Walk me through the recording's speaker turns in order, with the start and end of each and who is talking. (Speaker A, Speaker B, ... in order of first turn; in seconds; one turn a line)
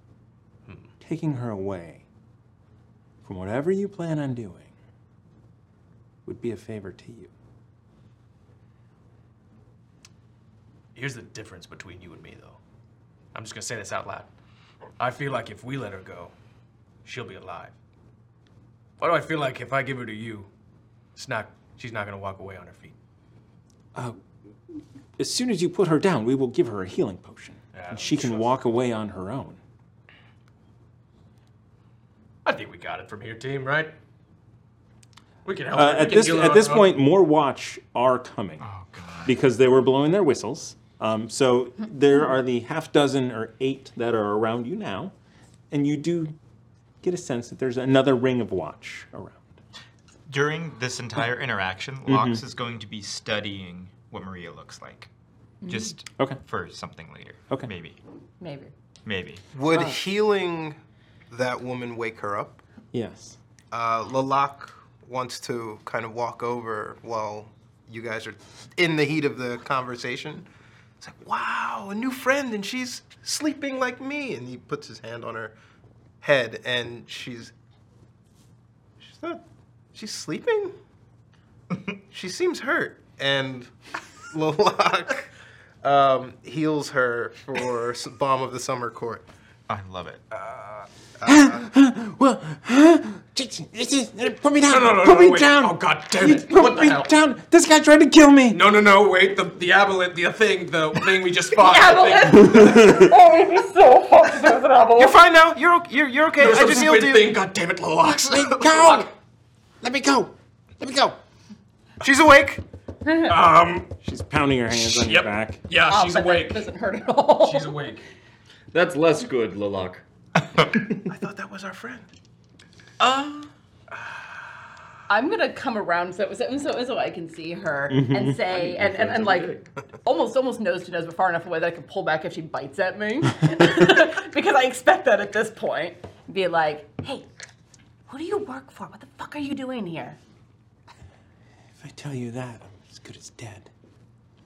Speaker A: 1.0-2.0
Speaker A: 3.2-4.7
Speaker A: 6.3-7.3
Speaker B: 10.9-12.6
Speaker B: 13.3-14.3
Speaker B: 15.0-16.3
Speaker B: 17.1-17.8
Speaker B: 19.0-20.5
Speaker B: 21.2-23.0
Speaker A: 25.2-29.6
Speaker B: 27.7-28.5
Speaker B: 32.5-33.9
Speaker B: 35.5-36.9
Speaker A: 35.7-38.7
Speaker C: 38.6-39.3
Speaker A: 39.2-45.1
Speaker A: 45.7-46.4
Speaker A: 47.0-49.6
Speaker C: 50.3-55.1
Speaker A: 52.1-52.4
Speaker D: 55.6-55.9
Speaker C: 55.7-58.0
Speaker A: 56.1-56.4
Speaker D: 58.4-58.7
Speaker C: 59.1-59.4
Speaker E: 59.5-60.8
Speaker D: 59.7-60.0
Speaker E: 61.3-62.6
Speaker A: 62.9-63.4
Speaker E: 63.7-70.5
Speaker E: 71.0-75.5
Speaker E: 76.2-77.5
Speaker E: 79.0-79.4
Speaker E: 80.0-80.7
Speaker E: 82.1-83.8
Speaker E: 84.3-85.3
Speaker E: 85.8-89.2
Speaker C: 89.7-90.2
Speaker E: 91.2-91.6
Speaker A: 91.2-98.6
Speaker B: 94.7-97.1
Speaker B: 98.5-102.8
Speaker D: 101.6-105.2
Speaker A: 102.4-103.1
Speaker E: 105.0-107.4
Speaker B: 106.4-109.1
Speaker A: 108.3-109.1
Speaker A: 109.8-111.2
Speaker E: 112.0-112.6
Speaker B: 113.2-113.9
Speaker A: 114.0-115.6
Speaker B: 114.9-116.7
Speaker D: 115.8-117.8
Speaker B: 117.4-118.0
Speaker F: 118.7-120.0
Speaker E: 121.0-122.1
Speaker C: 123.0-123.5
Speaker D: 125.1-137.3
Speaker A: 127.9-128.4
Speaker F: 128.4-129.7
Speaker D: 138.1-140.2
Speaker A: 141.8-143.7